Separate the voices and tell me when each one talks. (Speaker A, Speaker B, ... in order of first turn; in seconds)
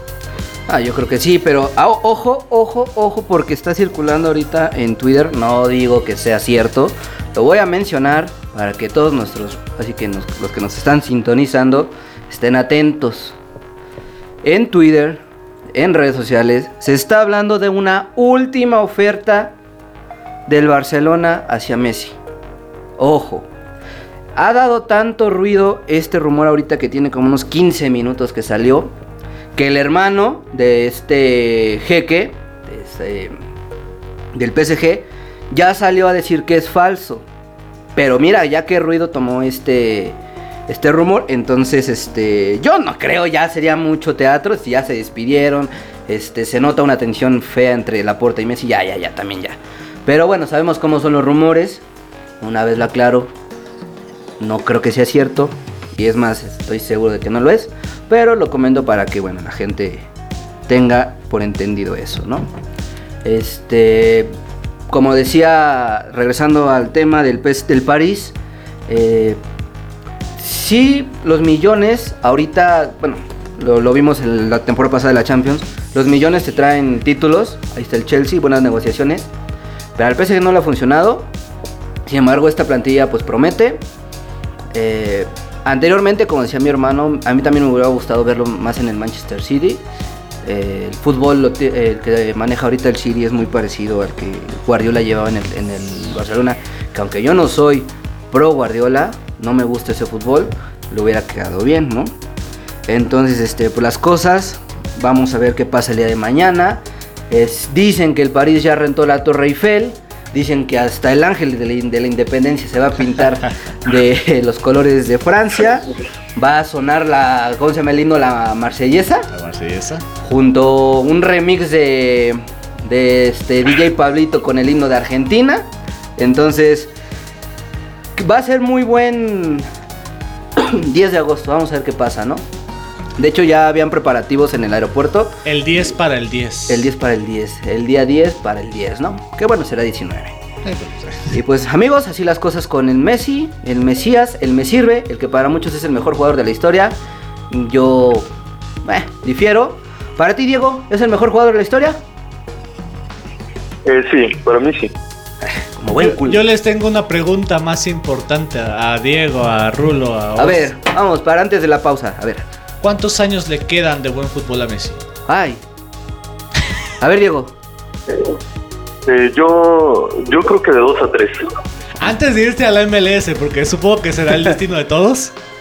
Speaker A: 0.7-13.4, 14.4-15.2, 15.7-19.6, 20.5-22.2, 23.0-23.5, 24.4-28.9, 29.6-33.4, 34.3-37.3, 38.0-51.8, 52.4-53.3, 54.4-60.1, 60.7-62.5, 63.2-64.3, 64.9-68.4, 68.9-69.4, 70.4-79.3, 80.0-81.3, 82.0-83.8, 84.7-89.8, 90.4-102.1, 102.9-119.3, 120.2-126.9, 128.2-129.7, 130.6-132.4, 133.2-135.4, 136.7-140.4, 141.3-147.0, 147.5-148.3, 148.8-152.0, 155.4-156.4, 160.4-162.4, 165.3-165.6, 167.0-167.6
Speaker B: 119.3-120.1, 135.4-136.9, 140.7-141.3, 155.9-160.7, 162.8-165.0, 172.0-175.3
Speaker C: 153.8-154.9, 169.1-171.5